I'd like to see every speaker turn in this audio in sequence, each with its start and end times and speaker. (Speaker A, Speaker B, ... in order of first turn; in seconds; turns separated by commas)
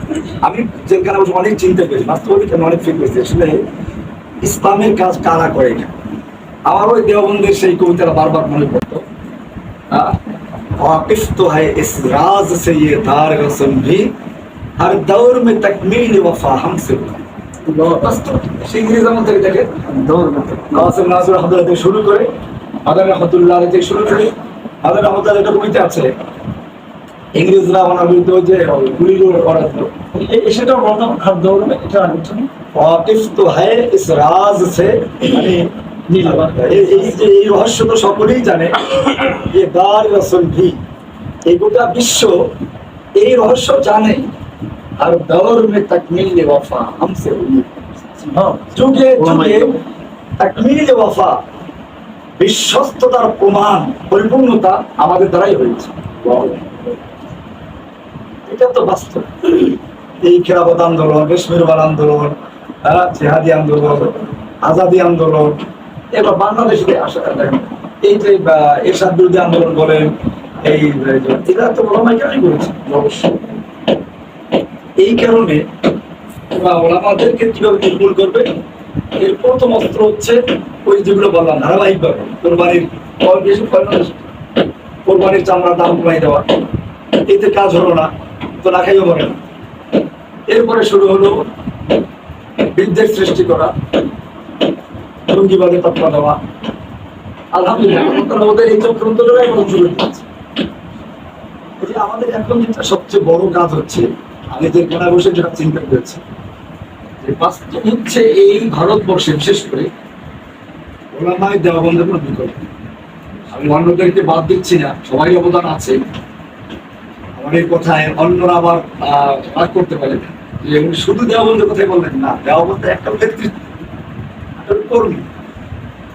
Speaker A: 0.4-3.6, Speaker A: 4.4-5.9, Speaker A: 6.7-9.0, Speaker A: 9.9-10.2, Speaker A: 10.8-14.1, Speaker A: 14.8-17.2, Speaker B: 17.7-18.0, Speaker A: 17.8-19.8, Speaker B: 19.9-20.7, Speaker A: 20.7-22.3, Speaker A: 22.8-26.1, Speaker A: 27.3-29.9, Speaker B: 30.1-32.5, Speaker A: 32.7-35.7, Speaker B: 36.1-37.0, Speaker A: 36.2-40.8, Speaker A: 41.5-42.5, Speaker A: 43.2-44.3, Speaker A: 45.0-49.8, Speaker B: 48.3-49.7, Speaker A: 50.4-51.4, Speaker A: 52.4-56.8, Speaker A: 58.5-65.6, Speaker A: 66.1-70.1, Speaker A: 70.6-73.3, Speaker A: 75.0-75.6, Speaker A: 76.5-78.5, Speaker A: 79.2-84.3, Speaker A: 85.0-86.5, Speaker A: 87.3-88.1, Speaker A: 88.6-89.4, Speaker A: 90.5-91.4, Speaker A: 92.7-93.7, Speaker A: 95.3-96.4, Speaker A: 97.5-100.2, Speaker A: 101.8-106.2, Speaker A: 107.2-109.9, Speaker A: 111.1-112.7, Speaker A: 113.5-116.0, Speaker A: 117.4-123.6, Speaker A: 124.6-125.3